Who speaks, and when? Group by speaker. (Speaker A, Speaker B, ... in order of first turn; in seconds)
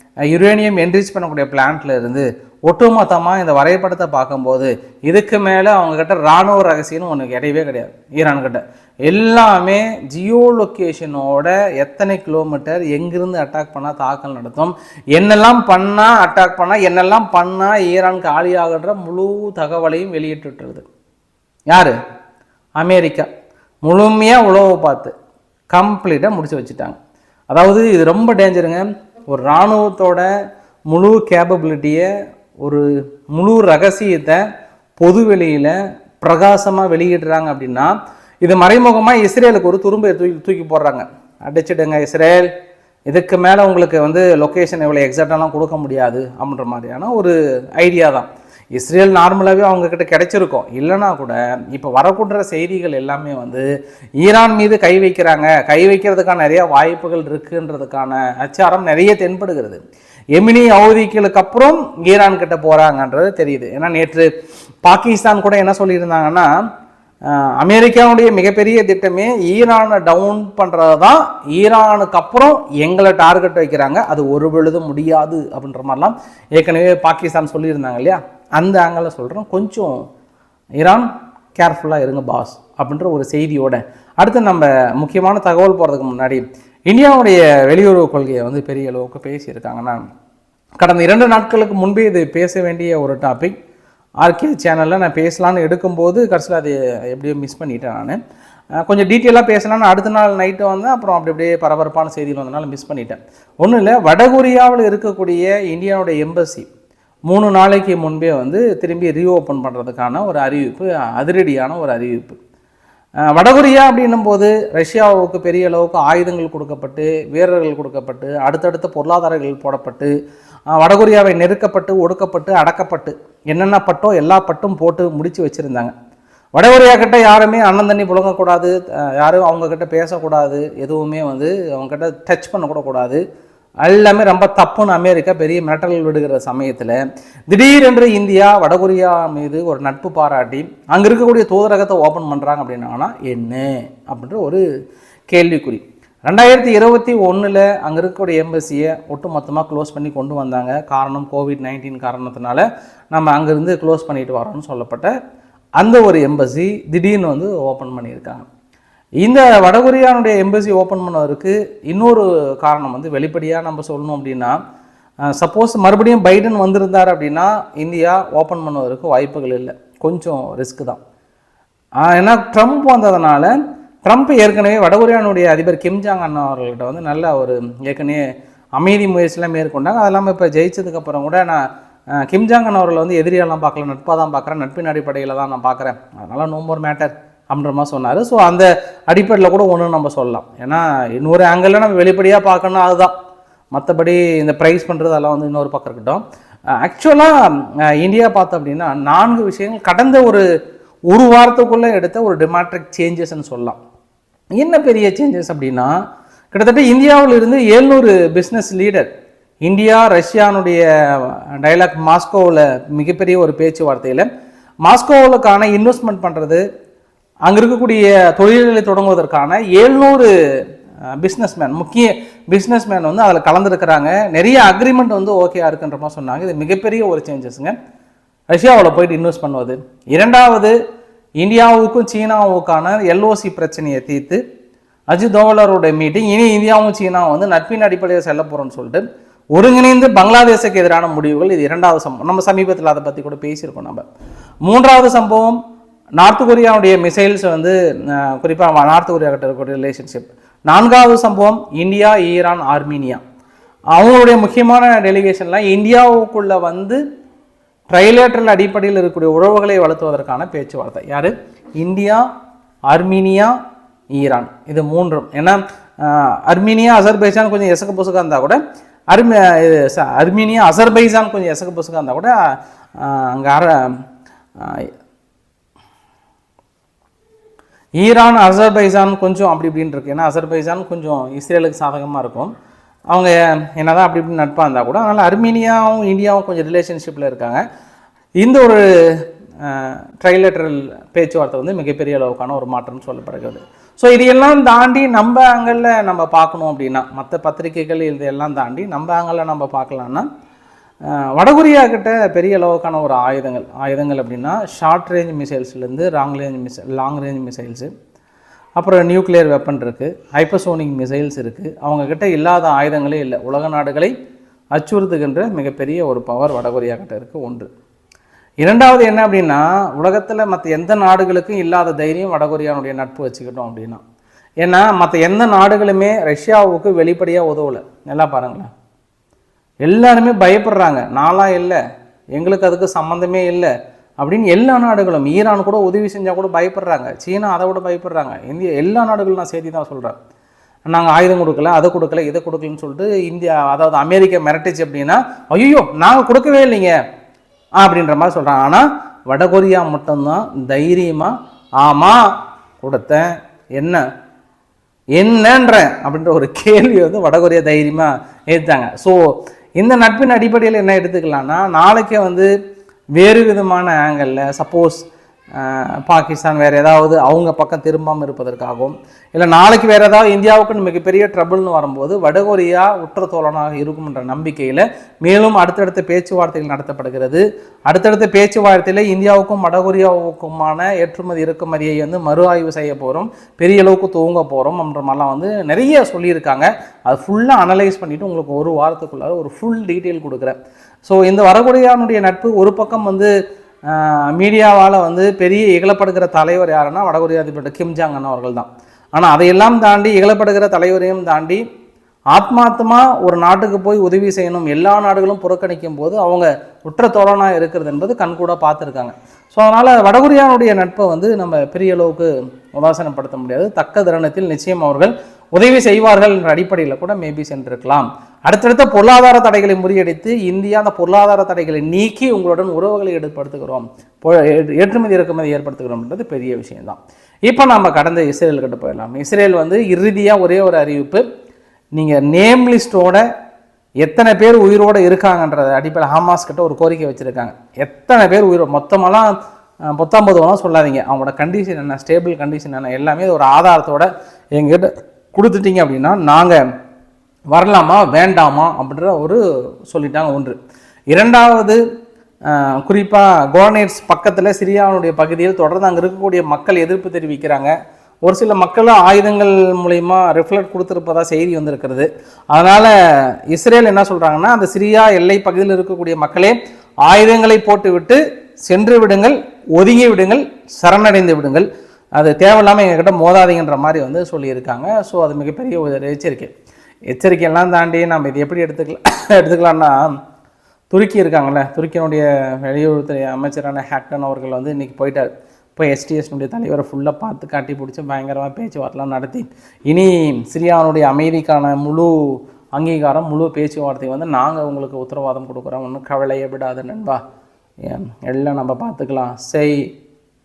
Speaker A: 0.3-20.8, 21.7-21.9, 22.8-23.3, 23.8-25.1, 25.7-26.9, 27.5-30.3, 30.9-32.1, 32.6-34.4, 35.0-42.5, 43.1-53.6, 54.2-59.8, 60.3-64.3, 64.8-66.5, 67.3-80.0, 80.8-90.0, 90.8-93.5, 94.2-98.2, 98.8-106.7, 107.3-112.4, 113.3-120.1, 120.7-125.9, 126.5-133.2, 133.8-137.0, 137.5-144.6, 145.3-155.1, 155.8-158.4, 159.2-164.6, 165.3-171.0, 172.0-173.5, 174.1-178.2, 178.8-181.6, 182.2-193.1, 193.7-196.2, 196.8-197.3, 198.0-200.4, 201.1-203.8, 204.6-205.9, 206.5-209.1, 209.7-214.3, 214.8-216.6, 217.4-220.3, 221.2-227.7, 228.5-230.7, 231.4-234.4, 235.1-244.1, 244.6-245.6, 246.2-253.2, 253.9-257.0, 257.9-262.2, 262.9-263.5, 264.1-268.6, 269.1-272.4, 273.0-273.9, 274.6-274.9, 278.0-282.5, 283.1-287.6, 288.4-300.2, 301.1-307.9, 308.8-314.1, 314.7-317.7, 318.6-324.0, 324.6-328.7, 329.8-331.8, 332.3-333.7, 334.2-340.1, 340.9-346.9, 347.8-352.3, 352.8-354.0, 355.1-362.5, 363.2-393.3, 393.9-401.6, 402.3-431.2, 431.9-433.2, 434.0-439.3, 439.9-446.6, 447.5-450.6, 451.1-451.8, 452.5-457.7, 458.2-462.9, 463.5-476.5, 477.1-480.0, 480.9-497.2, 497.8-499.8